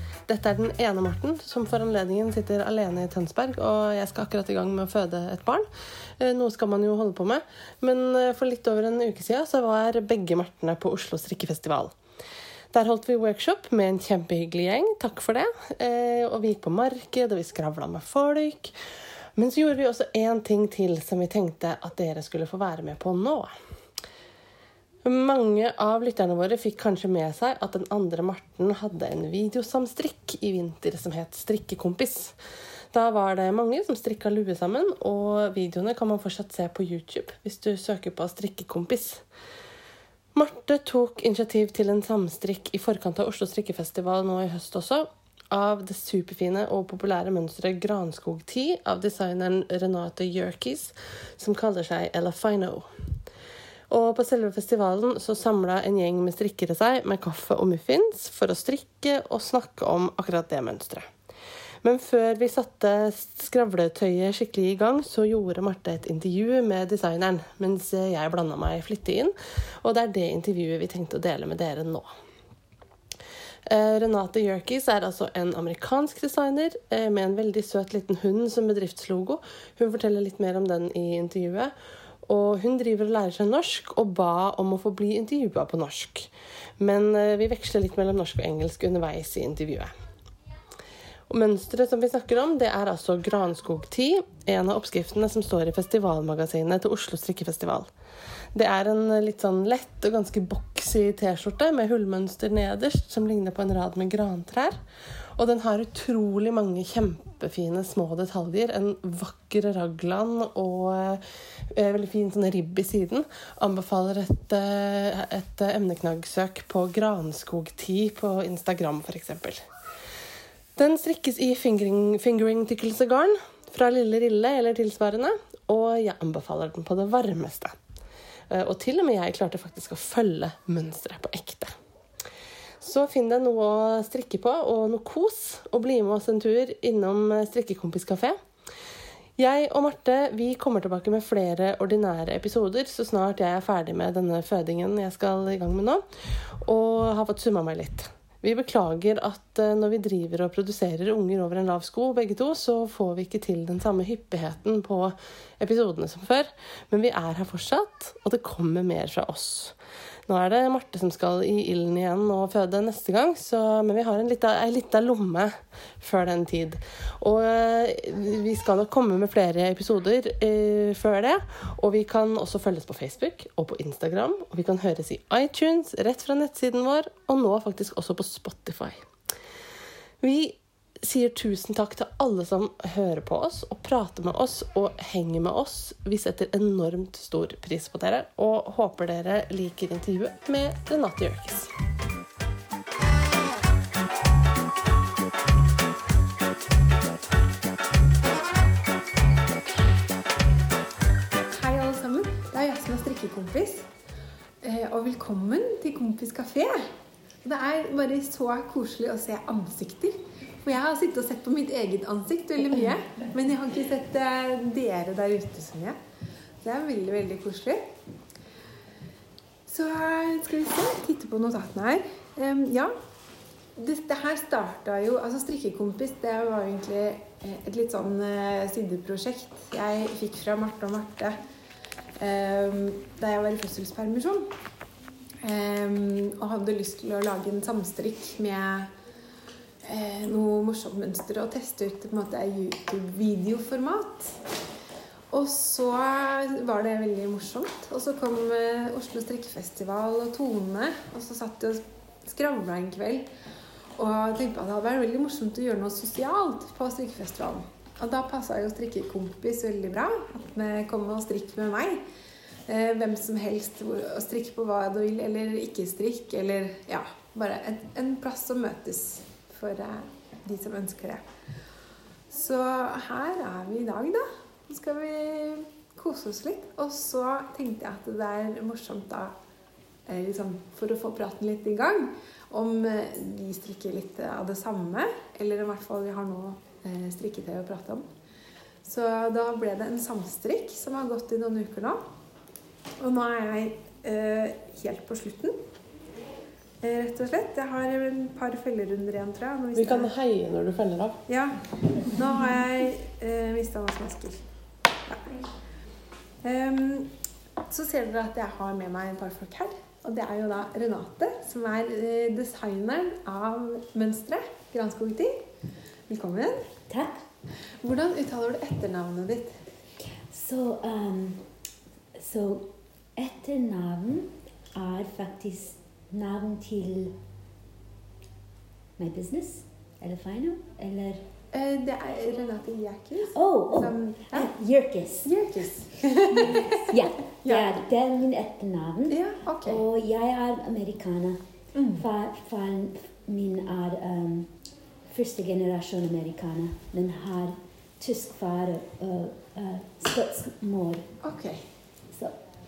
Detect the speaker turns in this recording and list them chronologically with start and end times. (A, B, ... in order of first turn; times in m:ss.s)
0:00.3-0:05.7 A
0:06.2-0:11.9 A
0:12.7-0:18.7 A
0:19.4-0:23.5 A
0:25.0-0:32.3 A
0:32.9-0:39.2 A
0:40.3-0:52.9 A
0:53.9-1:01.1 A
1:01.8-1:12.1 A
1:13.7-1:21.7 A
1:22.3-1:26.3 A
1:26.8-1:29.9 A
1:31.3-1:37.9 A
1:38.6-1:44.8 A
1:45.4-1:59.6 A
2:00.8-2:07.7 A
2:08.5-2:11.7 A
2:12.8-2:18.4 A
2:19.4-2:39.7 A
2:40.3-2:59.0 A
3:00.2-3:11.7 A
3:21.5-3:23.9 B
3:24.6-3:26.9 B
3:27.4-3:36.0 B
3:36.6-3:37.9 B
3:39.7-3:42.9 B
3:43.8-3:51.4 B
3:52.2-3:54.5 B
3:55.4-3:58.9 B
3:59.8-4:04.4 B
4:05.3-4:13.3 B
4:14.0-4:22.0 B
4:22.7-4:31.2 B
4:32.3-4:39.4 B
4:40.1-4:48.0 B
4:48.8-4:52.0 B
4:53.0-4:55.6 B
4:56.8-5:00.1 B
4:59.8-5:01.2 A
5:01.3-5:04.5 B
5:05.1-5:05.4 B
5:06.4-5:07.1 B
5:07.7-5:15.5 B
5:16.1-5:16.7 B
5:16.9-5:17.2 C
5:17.7-5:19.6 B
5:20.3-5:21.5 C
5:22.2-5:27.2 C
5:29.0-5:31.2 C
5:31.5-5:34.5 B
5:33.3-5:35.4 C
5:35.2-5:37.7 B
5:36.3-5:41.4 C
5:39.1-5:39.8 B
5:41.7-5:42.0 B
5:41.9-5:44.5 C
5:45.1-5:51.1 C
5:51.2-5:51.6 B